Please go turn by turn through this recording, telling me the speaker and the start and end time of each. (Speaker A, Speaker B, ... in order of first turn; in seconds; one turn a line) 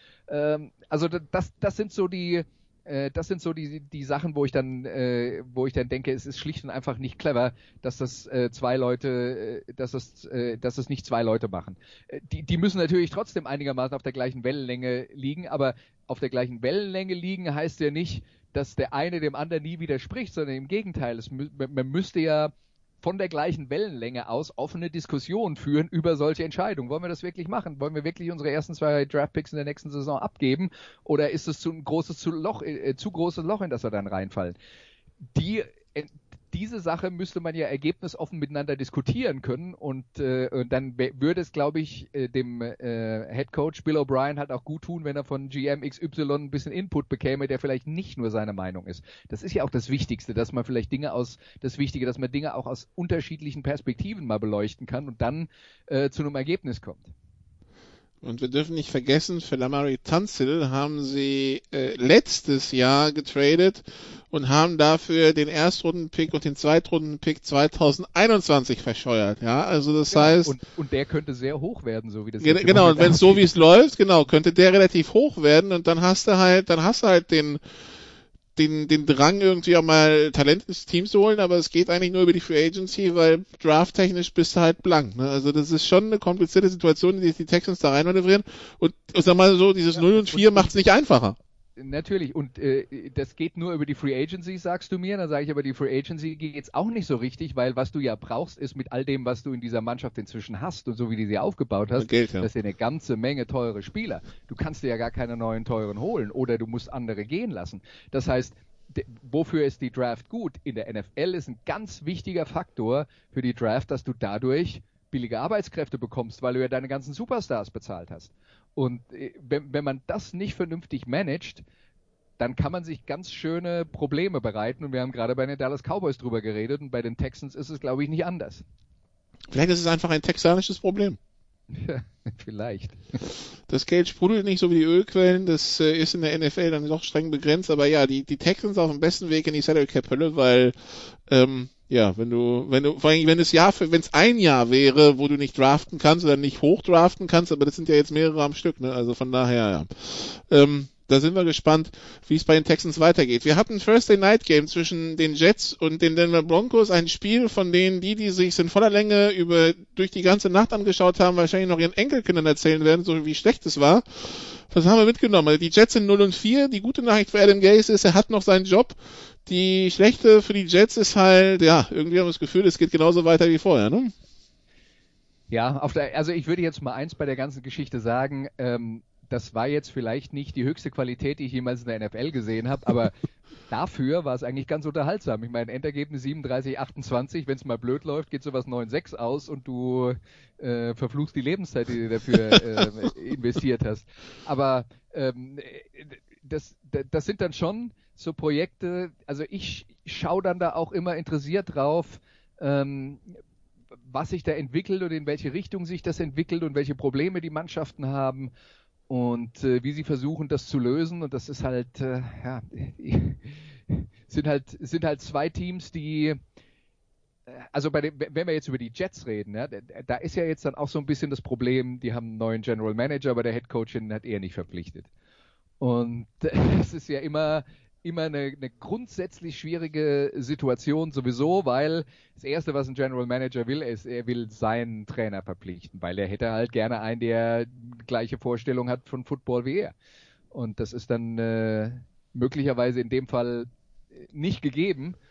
Speaker A: 0.3-34.5
Speaker A: 35.3-57.0
Speaker B: 58.2-70.5
Speaker A: 70.1-73.4
Speaker B: 72.4-77.6
Speaker B: 78.5-91.4
Speaker A: 90.0-90.8
Speaker A: 91.8-121.6
Speaker B: 102.0-102.5
Speaker A: 122.4-128.6
Speaker B: 129.5-131.2
Speaker A: 131.7-133.2
Speaker B: 133.7-174.1
Speaker A: 175.5-183.2
Speaker A: 183.7-203.2
Speaker A: 204.1-208.5
Speaker A: 209.1-216.4
Speaker A: 217.5-225.1
Speaker A: 225.8-239.9
Speaker A: 240.5-243.7
Speaker A: 244.2-245.2